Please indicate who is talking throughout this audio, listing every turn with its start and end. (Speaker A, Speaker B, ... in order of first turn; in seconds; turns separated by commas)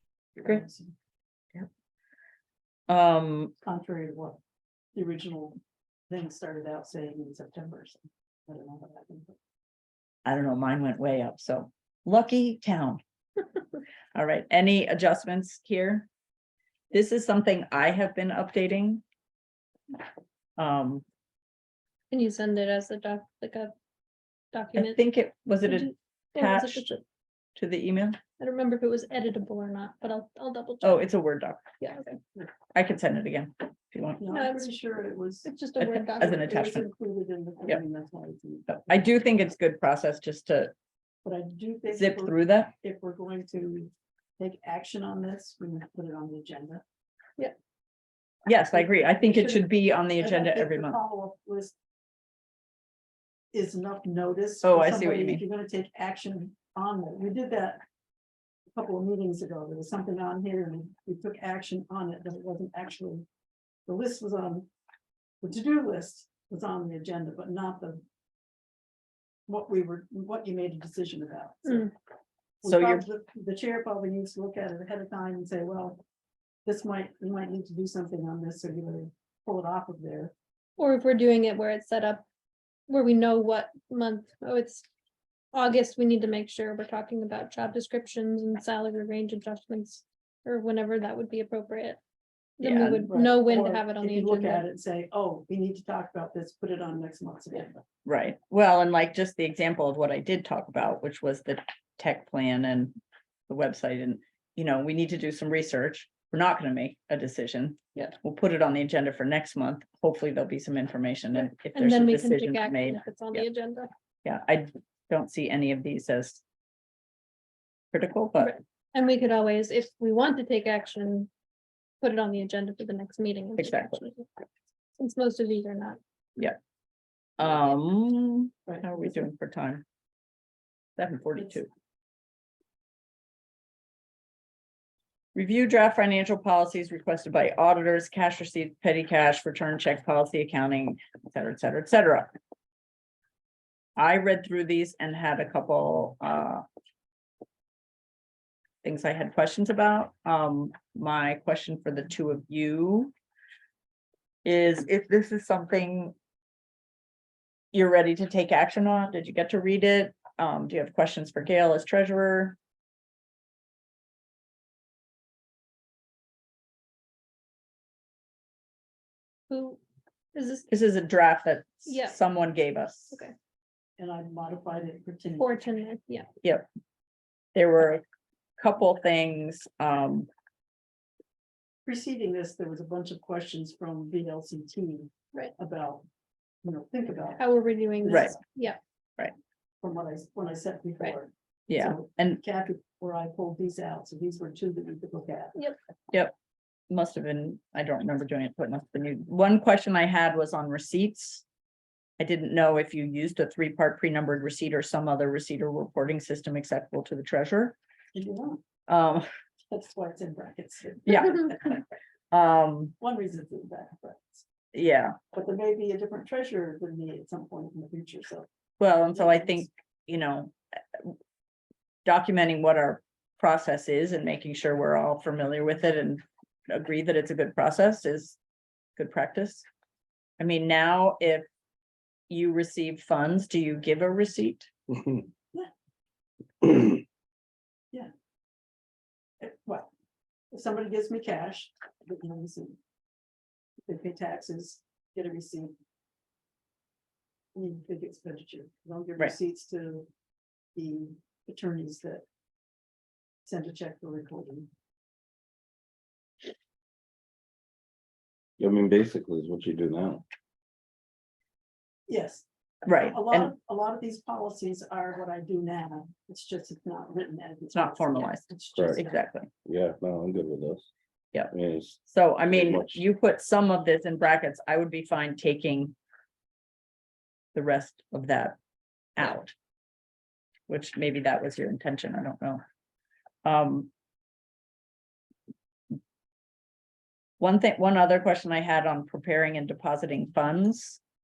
Speaker A: 0.3-0.9, Speaker B: 2.9-3.5, Speaker A: 3.6-4.4, Speaker A: 4.9-5.6, Speaker A: 6.1-9.3, Speaker B: 10.2-13.0, Speaker B: 14.1-16.1, Speaker B: 16.9-19.0, Speaker B: 20.6-21.0, Speaker C: 22.1-23.7, Speaker C: 24.5-25.0, Speaker B: 24.8-26.9, Speaker C: 25.6-27.0, Speaker B: 27.6-28.2, Speaker C: 28.4-31.1, Speaker B: 30.8-31.6, Speaker C: 31.8-32.2, Speaker B: 32.7-34.2, Speaker A: 34.2-35.5, Speaker C: 34.3-34.7, Speaker C: 35.4-36.7, Speaker B: 35.8-36.9, Speaker A: 36.3-39.0, Speaker B: 38.7-40.7, Speaker A: 41.2-46.8, Speaker B: 41.9-42.7, Speaker B: 48.5-51.0, Speaker A: 48.7-51.7, Speaker A: 53.5-57.8, Speaker B: 54.6-55.4, Speaker A: 58.7-63.2, Speaker A: 63.9-64.7, Speaker A: 65.4-68.0, Speaker A: 69.5-71.9, Speaker A: 72.6-76.0, Speaker B: 72.6-73.0, Speaker A: 76.6-80.3, Speaker C: 80.8-82.2, Speaker C: 82.9-84.8, Speaker C: 85.5-92.0, Speaker C: 92.6-94.6, Speaker B: 92.6-93.1, Speaker A: 93.1-97.8, Speaker B: 98.0-103.0, Speaker B: 103.5-113.5, Speaker C: 111.7-113.9, Speaker B: 114.2-116.4, Speaker B: 117.9-118.5, Speaker C: 118.4-121.3, Speaker C: 122.0-124.3, Speaker B: 123.6-124.0, Speaker C: 125.0-126.0, Speaker B: 127.4-129.8, Speaker B: 131.0-131.7, Speaker B: 135.3-142.3, Speaker B: 144.0-146.6, Speaker B: 148.8-153.1, Speaker B: 154.4-156.1, Speaker B: 157.7-162.6, Speaker C: 169.5-169.8, Speaker C: 170.3-170.7, Speaker B: 170.7-173.2, Speaker C: 171.8-172.2, Speaker A: 174.0-175.5, Speaker C: 175.4-176.3, Speaker B: 176.4-176.7, Speaker B: 177.5-178.0, Speaker B: 178.6-180.3, Speaker A: 181.8-186.0, Speaker A: 186.6-187.5, Speaker C: 187.4-188.8, Speaker A: 188.0-188.4, Speaker A: 189.8-195.6, Speaker B: 191.7-192.4, Speaker B: 196.9-201.4, Speaker B: 202.2-207.8, Speaker A: 208.1-208.6, Speaker B: 208.9-209.3, Speaker A: 209.7-211.5, Speaker B: 211.1-212.9, Speaker A: 213.0-214.4, Speaker B: 214.7-215.2, Speaker A: 215.3-218.5, Speaker B: 218.8-221.2, Speaker A: 219.1-219.7, Speaker B: 222.0-228.4, Speaker B: 229.0-229.6, Speaker B: 230.4-231.5, Speaker B: 232.3-234.7, Speaker A: 239.4-239.9, Speaker A: 240.5-242.8, Speaker A: 243.8-245.7, Speaker A: 247.5-250.1, Speaker A: 250.8-252.2, Speaker A: 253.4-254.7, Speaker D: 258.6-260.2, Speaker A: 262.1-269.2, Speaker B: 262.8-263.5, Speaker B: 267.7-269.5, Speaker D: 268.7-269.1, Speaker D: 269.6-270.9, Speaker B: 271.3-275.9, Speaker D: 271.5-273.0, Speaker B: 277.5-278.6, Speaker B: 279.1-279.5, Speaker B: 280.7-282.6, Speaker B: 283.4-283.9, Speaker B: 287.4-291.0